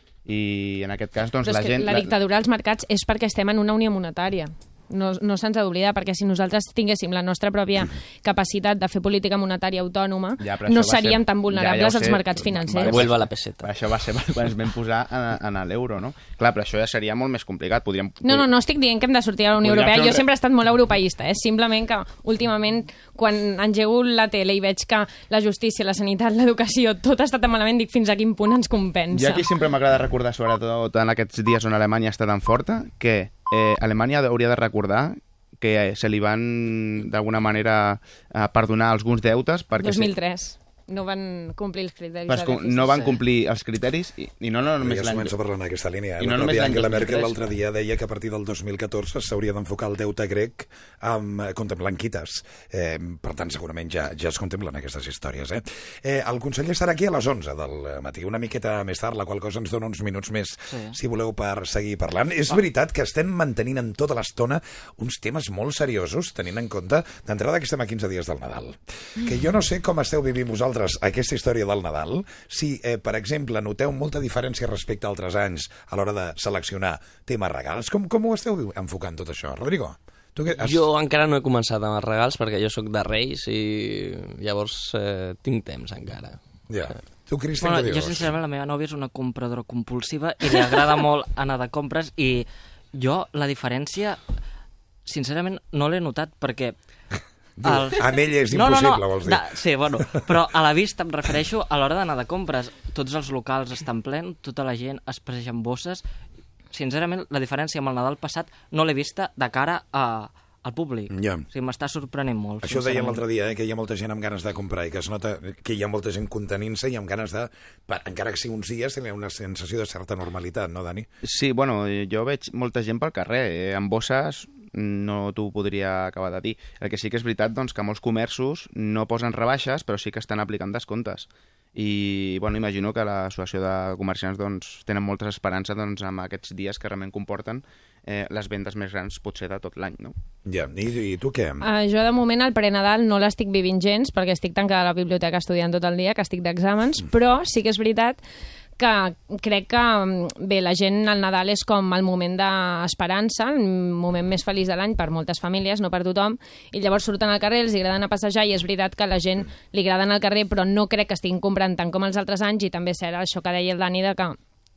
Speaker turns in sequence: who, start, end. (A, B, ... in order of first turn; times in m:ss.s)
0:00.2-0:02.1 A
0:01.4-0:13.0 B
0:10.4-0:18.5 A
0:12.8-0:13.7 C
0:18.2-0:29.4 B
0:19.6-0:20.2 A
0:29.1-0:40.1 A
0:39.8-0:43.2 B
0:42.3-0:45.3 A
0:44.8-1:20.8 D
0:46.2-0:47.5 A
1:00.7-1:01.0 E
1:20.5-1:26.4 C
1:26.7-1:28.3 D
1:27.6-1:34.2 E
1:35.0-1:36.7 E
1:37.6-1:39.4 D
1:37.6-1:46.0 E
1:46.7-1:53.2 E
1:51.1-1:51.4 D
1:52.6-2:01.1 D
2:01.2-2:20.1 A
2:20.4-2:21.6 D
2:21.6-2:28.2 B
2:28.8-2:44.4 B